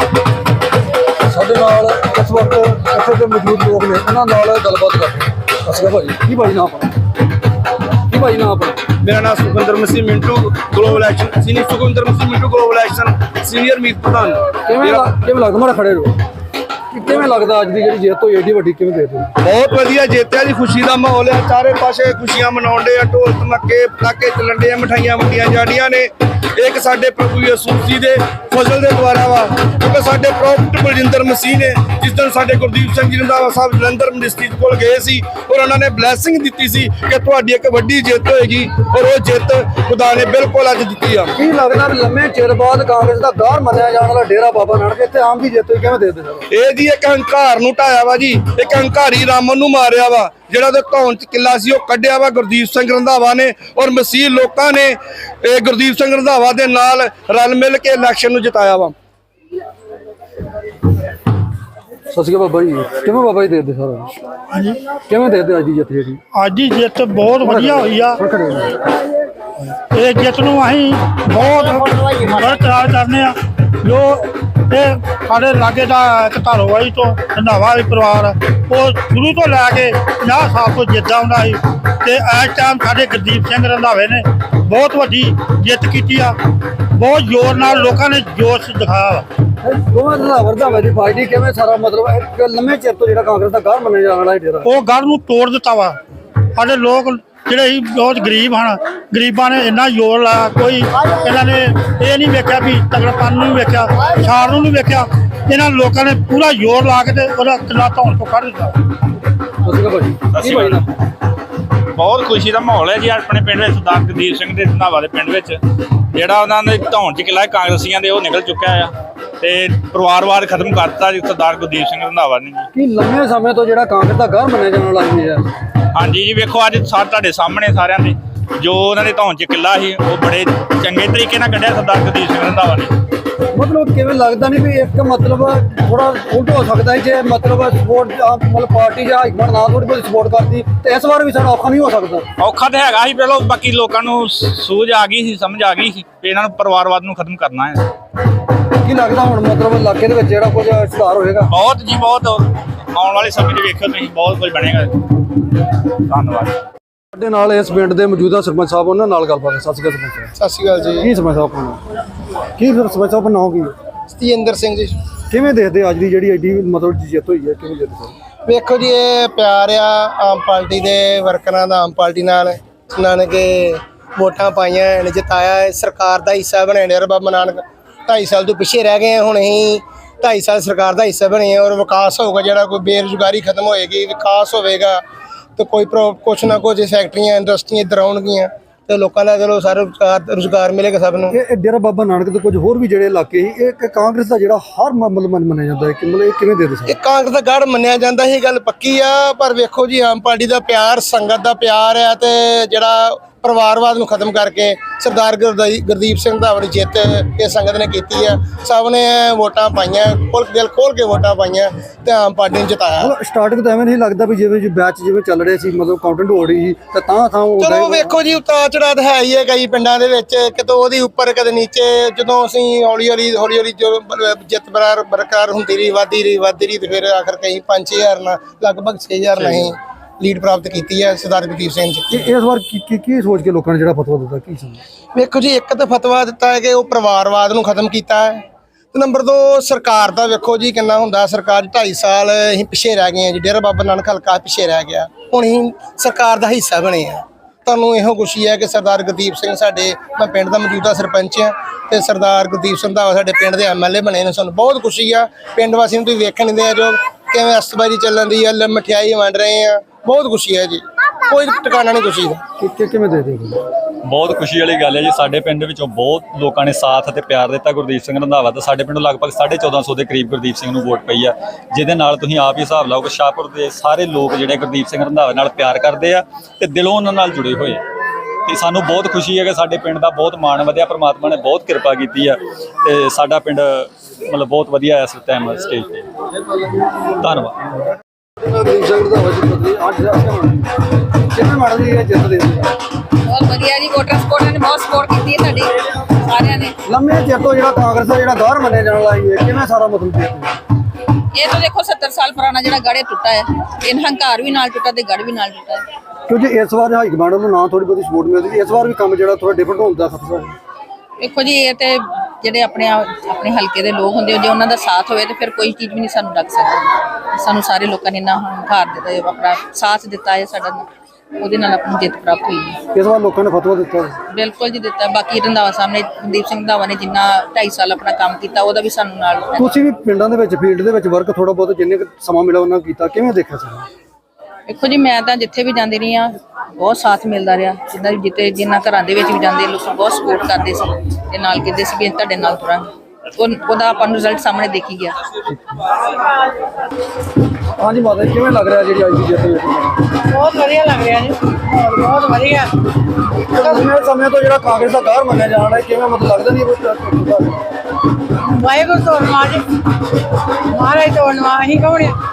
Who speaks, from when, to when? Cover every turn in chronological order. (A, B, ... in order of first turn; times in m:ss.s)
0:01.2-0:06.9 A
0:08.1-0:08.8 A
0:09.0-0:15.1 B
0:14.6-0:16.2 A
0:16.9-0:19.3 A
0:19.4-0:41.3 B
0:41.3-0:46.4 A
0:46.5-0:58.9 B
1:02.1-1:04.1 A
1:04.5-1:04.8 C
1:05.0-1:06.2 A
1:06.3-1:08.2 C
1:07.4-1:08.8 A
1:09.9-1:26.4 C
1:26.9-1:29.2 C
1:29.6-1:34.7 A
1:34.6-1:36.0 C
1:36.6-1:48.7 C
1:49.6-1:50.9 A
1:50.4-1:50.8 D
1:52.0-1:55.6 D
1:56.1-2:02.7 D
2:02.7-2:05.5 A
2:06.0-2:12.9 D
2:13.5-2:22.2 A
2:22.4-2:27.8 D
2:28.8-2:31.5 A
2:31.5-2:32.4 D
2:32.9-2:34.9 D
2:36.1-2:36.5 D
2:37.1-2:40.3 A
2:40.4-2:41.1 E
2:41.0-2:41.8 A
2:42.6-2:43.7 A
2:44.1-2:45.0 E
2:45.3-2:48.2 A
2:48.5-3:05.0 E
3:05.6-3:11.4 E
3:11.3-3:17.0 A
3:16.9-3:33.1 E
3:33.0-3:38.2 A
3:37.6-3:52.3 E
3:49.4-3:49.7 A
3:52.1-3:54.8 A
3:55.1-4:22.4 E
4:22.6-4:23.6 A
4:24.0-4:37.8 F
4:38.4-4:46.1 F
4:47.1-4:47.6 F
4:48.4-4:52.7 A
4:53.2-4:56.7 G
4:56.8-5:00.6 A
5:01.3-5:05.8 G
5:06.3-5:10.6 A
5:11.2-5:20.8 G
5:21.4-5:22.8 G
5:22.9-5:24.2 A
5:24.3-5:29.7 G
5:29.6-5:33.9 A
5:34.7-5:45.2 G
5:47.8-5:50.2 A
5:50.3-5:52.8 H
5:53.4-5:57.6 A
5:58.5-5:59.6 H
6:00.7-6:02.2 H